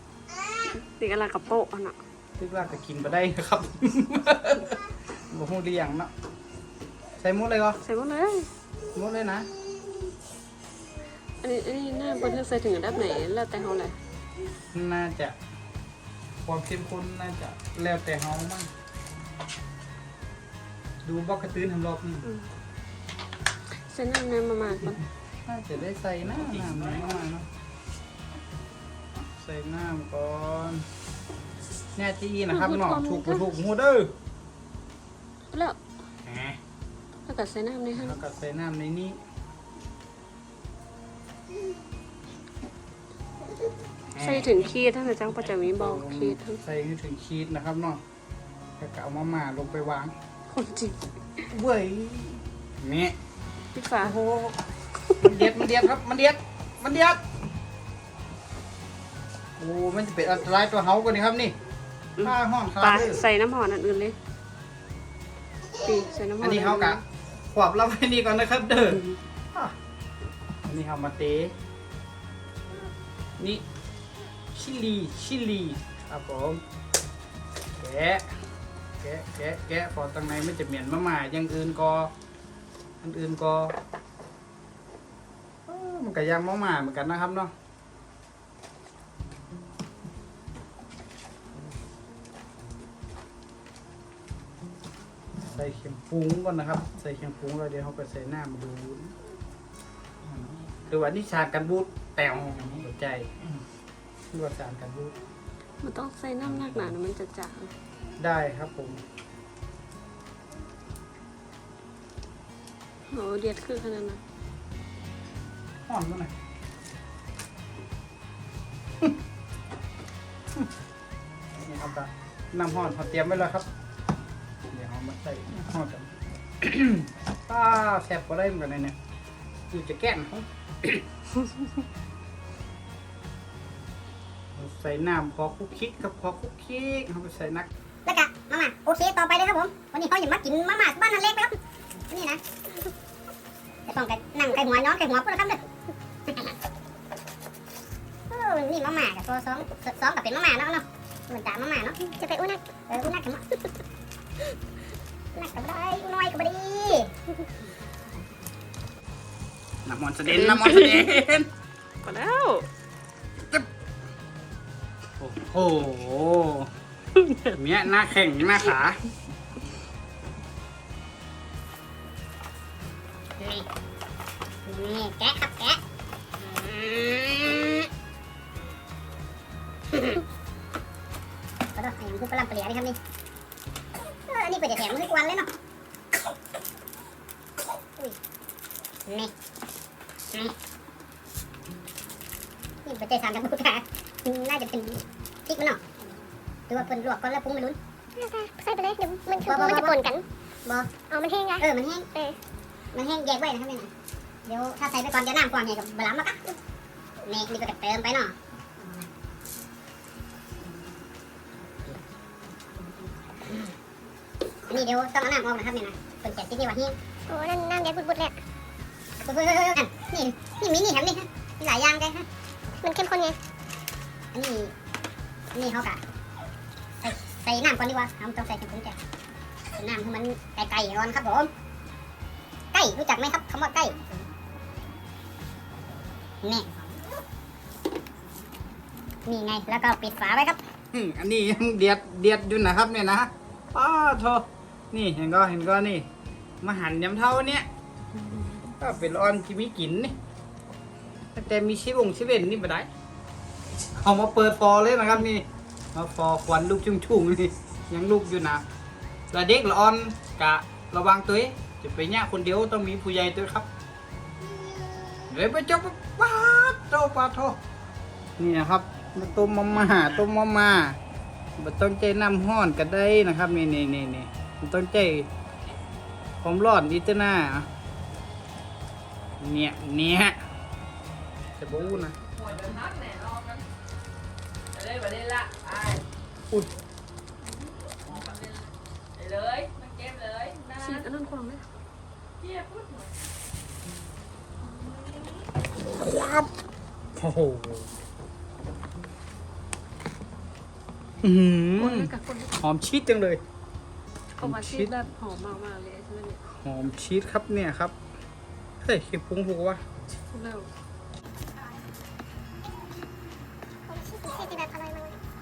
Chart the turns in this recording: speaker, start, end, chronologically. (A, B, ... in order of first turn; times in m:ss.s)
0:00.7-0:02.0 A
0:02.4-0:04.8 B
0:05.3-0:06.1 B
0:07.2-0:07.8 B
0:07.8-0:08.5 A
0:08.9-0:09.5 B
0:11.4-0:14.0 A
0:14.7-0:15.3 B
0:16.4-0:18.7 B
0:21.0-0:22.2 B
0:23.8-0:25.0 A
0:25.4-0:27.4 B
0:29.4-0:30.8 B
0:32.0-0:34.1 B
0:32.5-0:33.5 A
0:35.5-0:35.8 A
0:36.2-0:36.6 B
0:37.2-0:38.2 A
0:37.9-0:39.2 B
0:44.1-0:44.6 B
0:44.2-0:46.6 A
0:45.7-0:48.0 B
0:48.8-0:50.1 B
0:50.5-0:51.4 A
0:51.5-0:53.1 B
0:53.7-0:54.2 A
0:54.0-0:54.6 B
0:55.2-0:57.2 B
0:59.6-1:01.5 B
1:02.2-1:04.2 A
1:02.2-1:03.2 B
1:05.8-1:07.0 A
1:06.4-1:07.0 B
1:07.5-1:09.0 B
1:10.6-1:11.5 B
1:13.4-1:13.6 B
1:14.5-1:16.6 B
1:17.7-1:18.3 B
1:19.0-1:22.1 B
1:23.0-1:23.8 B
1:25.7-1:27.5 B
1:35.4-1:39.1 B
1:40.8-1:43.3 B
1:44.3-1:45.1 B
1:45.8-1:47.7 A
1:46.4-1:47.0 B
1:48.2-1:49.0 B
1:53.1-1:54.2 A
1:55.9-1:56.3 B
2:01.6-2:03.7 B
2:04.7-2:08.9 B
2:09.7-2:11.0 B
2:14.5-2:17.7 B
2:18.0-2:21.6 C
2:22.1-2:22.4 C
2:23.9-2:25.6 C
2:26.3-2:26.5 C
2:28.3-2:32.1 C
2:32.1-2:33.0 D
2:32.9-2:33.4 C
2:35.3-2:37.1 C
2:39.8-2:41.5 B
2:40.2-2:41.2 A
2:42.0-2:42.7 A
2:45.2-2:46.7 B
2:47.2-2:47.5 A
2:47.5-2:49.0 B
2:53.4-2:53.7 C
2:54.6-2:55.8 C
2:56.4-2:57.9 C
2:59.9-3:00.2 C
3:01.8-3:03.0 C
3:04.3-3:05.5 C
3:09.0-3:09.3 C
3:12.8-3:15.8 C
3:16.7-3:17.8 C
3:18.2-3:20.2 D
3:19.5-3:20.0 C
3:20.6-3:20.9 C
3:21.0-3:22.4 D
3:21.6-3:22.1 C
3:22.9-3:23.9 C
3:24.4-3:26.6 C
3:27.2-3:28.3 C
3:34.7-3:37.0 C
3:37.3-3:38.4 D
3:39.2-3:42.3 C
3:42.8-3:43.4 D
3:44.3-3:44.7 C
3:45.5-3:46.0 C
3:47.0-3:49.0 C
3:49.8-3:51.5 C
3:52.7-3:54.0 C
3:56.4-3:56.7 C
3:59.2-4:00.6 C
4:00.9-4:06.1 B
4:06.6-4:07.7 B
4:08.8-4:10.1 B
4:11.3-4:12.9 B
4:14.0-4:18.6 B
4:19.3-4:23.7 B
4:25.3-4:27.6 B
4:28.4-4:31.0 B
4:31.6-4:35.3 B
4:36.4-4:37.7 B
4:39.4-4:40.4 B
4:41.6-4:42.2 B
4:42.2-4:43.6 E
4:44.7-4:46.0 E
4:47.4-4:51.1 E
4:50.8-4:51.7 A
4:52.4-4:53.1 E
4:54.7-4:55.4 E
4:55.8-4:56.5 B
4:57.2-4:57.9 B
5:01.2-5:03.4 B
5:01.8-5:02.5 A
5:04.4-5:06.5 A
5:04.4-5:04.9 B
5:06.6-5:07.9 B
5:08.8-5:09.8 B
5:10.3-5:10.7 A
5:13.9-5:15.2 D